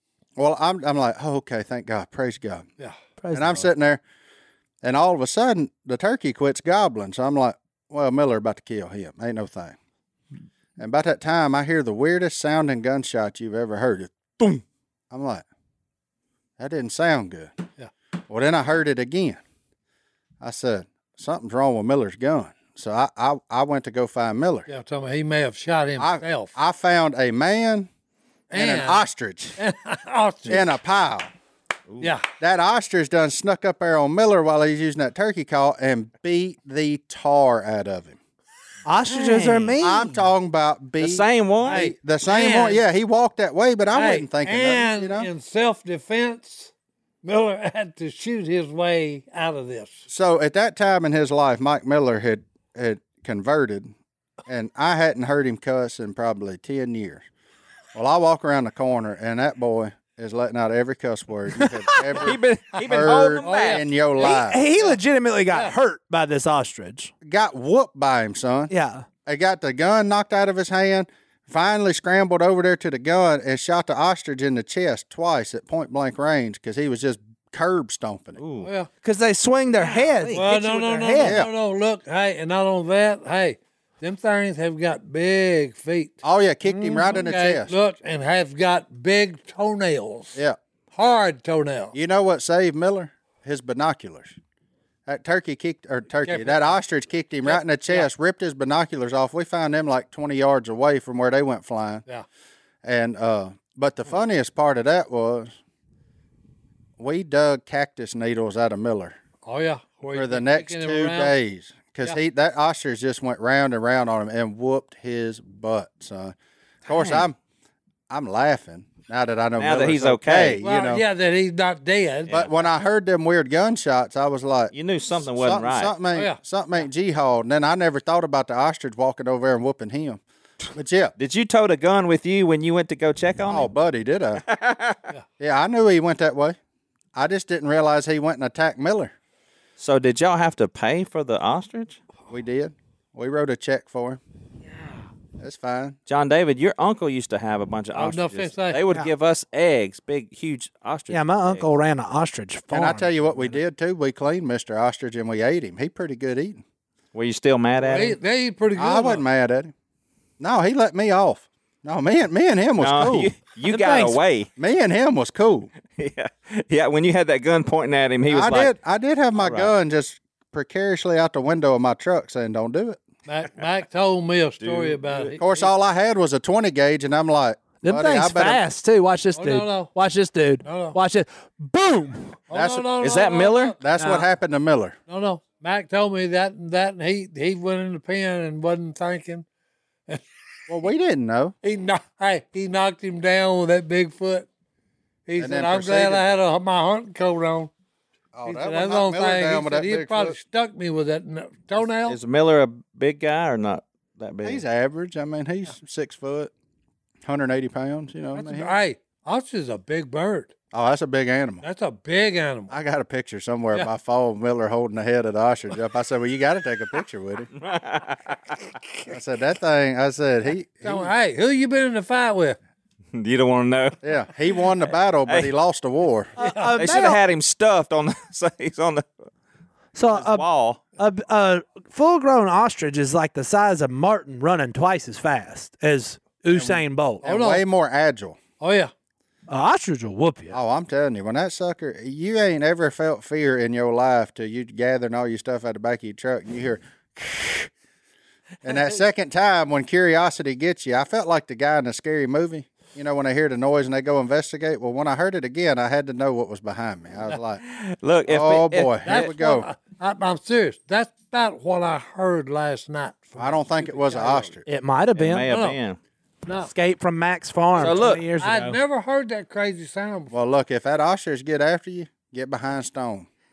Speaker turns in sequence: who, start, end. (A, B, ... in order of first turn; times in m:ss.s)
0:00.4-0:02.6 A
0:03.2-0:03.7 B
0:03.3-0:04.0 A
0:04.8-0:09.8 A
0:10.8-0:15.4 A
0:16.6-0:17.5 A
0:18.3-0:19.4 A
0:20.4-0:24.7 A
0:24.7-0:26.5 C
0:26.0-0:27.9 A
0:28.5-0:29.0 C
0:28.5-0:29.6 A
0:29.6-0:30.8 C
0:30.5-0:31.3 A
0:32.0-0:32.3 C
0:32.4-0:38.2 A
0:38.8-0:40.3 B
0:39.0-0:39.8 D
0:39.8-0:45.3 A
0:41.0-0:41.8 D
0:41.6-0:42.8 C
0:43.9-0:46.7 C
0:47.2-0:50.1 C
0:50.1-0:53.9 A
0:54.5-0:57.2 A
0:57.9-1:04.6 A
1:02.2-1:03.8 D
1:03.4-1:05.0 C
1:04.2-1:07.1 B
1:07.2-1:08.7 A
1:08.7-1:09.0 B
1:09.2-1:18.4 A
1:18.4-1:18.7 D
1:18.6-1:18.9 C
1:19.0-1:21.4 B
1:19.8-1:20.4 D
1:20.3-1:30.4 C
1:21.2-1:21.5 A
1:26.2-1:27.7 A
1:30.9-1:31.9 C
1:31.9-1:34.4 A
1:35.0-1:42.0 A
1:36.2-1:36.7 C
1:37.4-1:38.1 C
1:42.8-1:45.5 A
1:47.0-1:49.2 A
1:49.4-1:51.3 C
1:50.1-1:57.4 A
1:57.0-1:57.2 D
1:58.1-2:01.0 A
1:59.6-2:00.6 D
2:00.6-2:02.3 C
2:02.3-2:04.7 A
2:04.7-2:05.9 D
2:05.3-2:10.2 A
2:06.1-2:06.4 C
2:10.7-2:11.1 A
2:11.2-2:13.7 D
2:13.5-2:14.4 A
2:14.4-2:15.0 D
2:15.4-2:16.6 A
2:17.1-2:19.1 A
2:19.8-2:22.0 D
2:22.3-2:24.2 A
2:25.4-2:26.0 A
2:26.1-2:31.7 D
2:27.9-2:28.8 C
2:31.1-2:33.6 B
2:32.7-2:36.6 A
2:37.1-2:38.2 D
2:37.8-2:39.2 C
2:38.8-2:39.7 A
2:40.4-2:43.3 A
2:42.8-2:44.5 D
2:43.6-2:44.2 B
2:44.6-2:45.7 A
2:46.0-2:48.7 D
2:48.3-2:53.0 A
2:49.4-2:49.7 D
2:53.2-2:55.7 C
2:54.6-2:55.3 D
2:55.4-2:58.6 A
2:57.8-3:02.4 B
2:59.3-2:59.9 C
3:00.6-3:01.0 C
3:02.5-3:03.8 C
3:02.5-3:02.9 A
3:03.0-3:03.8 D
3:03.8-3:05.0 A
3:04.0-3:04.3 B
3:05.1-3:09.4 C
3:10.7-3:11.6 A
3:11.6-3:14.5 C
3:15.3-3:17.7 C
3:15.4-3:16.3 A
3:18.3-3:20.4 A
3:18.4-3:22.2 C
3:22.0-3:24.6 D
3:24.4-3:26.5 A
3:27.2-3:28.7 A
3:28.3-3:30.5 C
3:30.7-3:31.6 A
3:31.6-3:32.7 C
3:32.7-3:37.5 A
3:37.6-3:38.6 D
3:39.1-3:41.1 A
3:40.8-3:42.6 C
3:43.1-3:44.0 D
3:44.0-3:46.3 A
3:46.4-3:47.2 B
3:46.4-3:46.7 C
3:46.8-3:49.1 D
3:49.9-3:57.2 B
3:50.1-3:50.8 D
3:56.5-3:58.4 A
3:57.2-3:57.6 C
3:58.6-3:58.9 C
3:59.5-4:00.6 B
4:00.5-4:07.7 A
4:08.6-4:17.6 A
4:17.6-4:19.3 D
4:18.3-4:19.7 A
4:19.0-4:24.5 C
4:23.4-4:24.6 A
4:24.6-4:25.5 B
4:25.1-4:26.0 D
4:25.5-4:25.8 C
4:26.4-4:26.7 C
4:26.6-4:28.8 B
4:27.8-4:28.2 D
4:27.8-4:30.3 C
4:30.3-4:33.3 A